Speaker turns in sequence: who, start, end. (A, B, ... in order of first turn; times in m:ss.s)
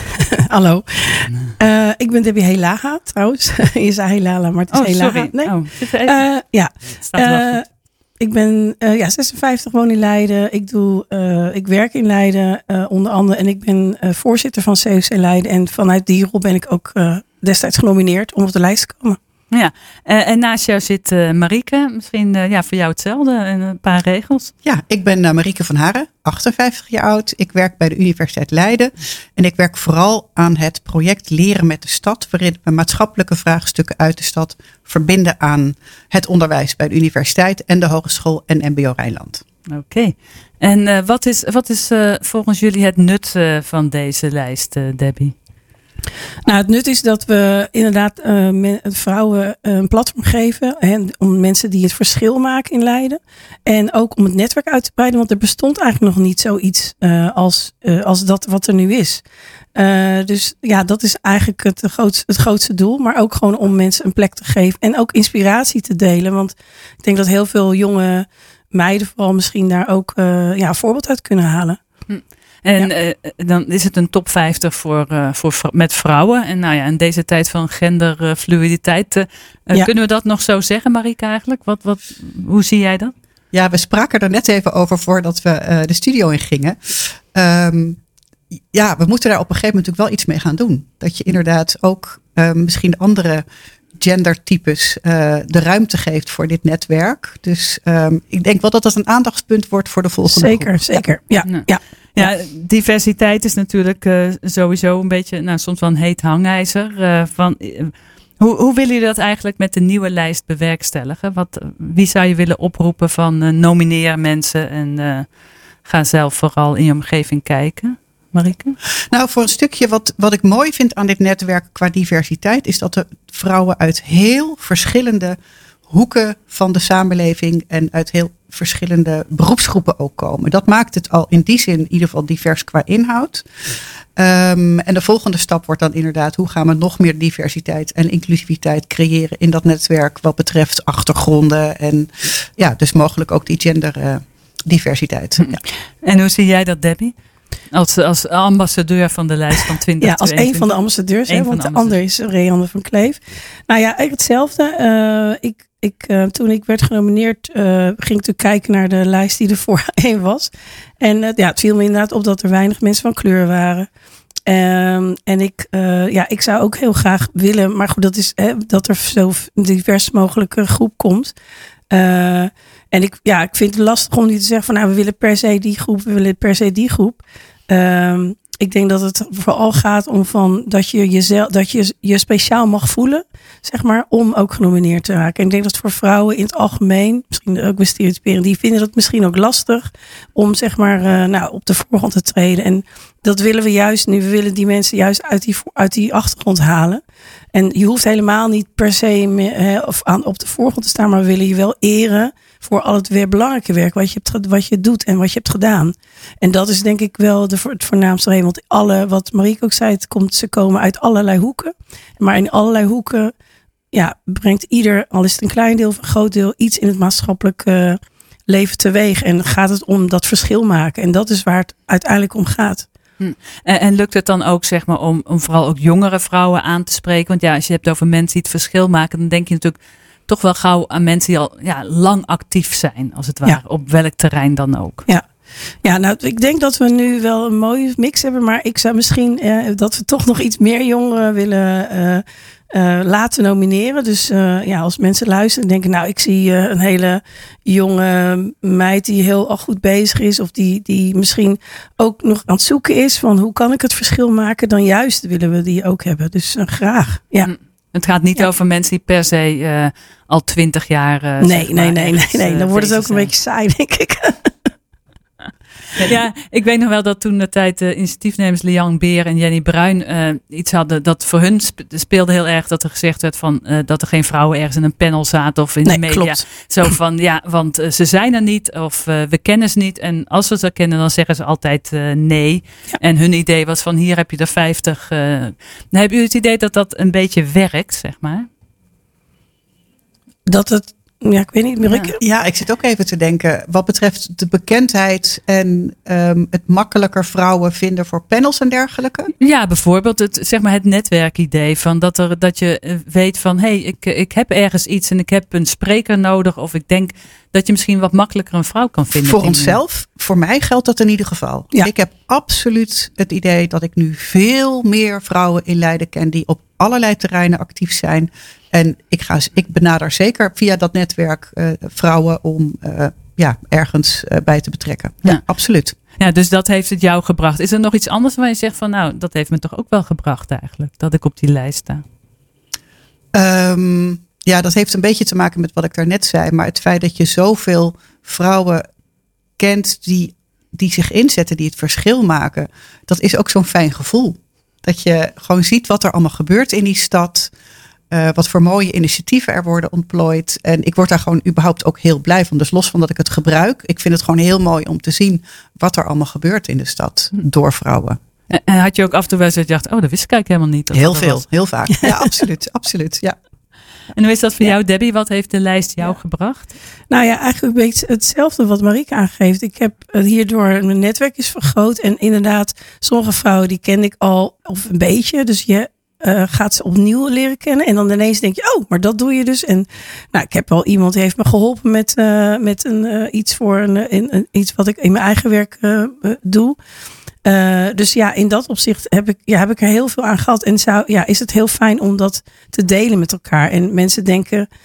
0:00.1-0:07.6 A
0:04.7-0:06.2 B
0:06.9-0:07.6 B
0:08.2-0:19.2 A
0:19.5-0:24.5 B
0:24.6-0:39.4 C
0:39.7-0:45.3 B
0:46.5-0:59.2 A
0:59.8-1:11.8 A
1:12.1-1:23.1 B
1:23.5-1:28.0 C
1:28.7-1:33.4 C
1:34.0-1:41.0 C
1:40.3-1:42.3 A
1:41.4-1:55.3 B
1:55.8-1:58.8 B
1:59.1-2:05.4 C
2:05.9-2:13.5 C
2:14.2-2:25.6 C
2:25.4-2:27.2 B
2:27.7-2:30.8 B
2:30.0-2:43.9 A
2:31.3-2:32.0 B
2:44.5-2:51.3 A
2:51.9-3:17.0 A
3:17.5-3:33.3 A
3:33.9-3:42.9 A
3:43.2-3:55.1 B
3:55.8-4:17.5 A
4:17.4-4:23.3 B
4:21.4-4:24.5 A
4:26.0-4:48.5 B
4:35.9-4:36.4 A
4:50.5-4:52.2 A
4:51.9-4:52.1 B
4:52.2-4:59.3 C
4:59.4-5:09.8 B
5:09.2-5:26.0 C
5:26.2-5:32.0 B
5:33.3-5:38.9 C
5:39.6-5:47.5 C
5:48.1-5:58.2 C
5:58.5-6:01.4 B
6:00.9-6:03.4 C
6:04.1-6:06.7 B
6:07.1-6:26.8 A
6:27.4-6:34.7 A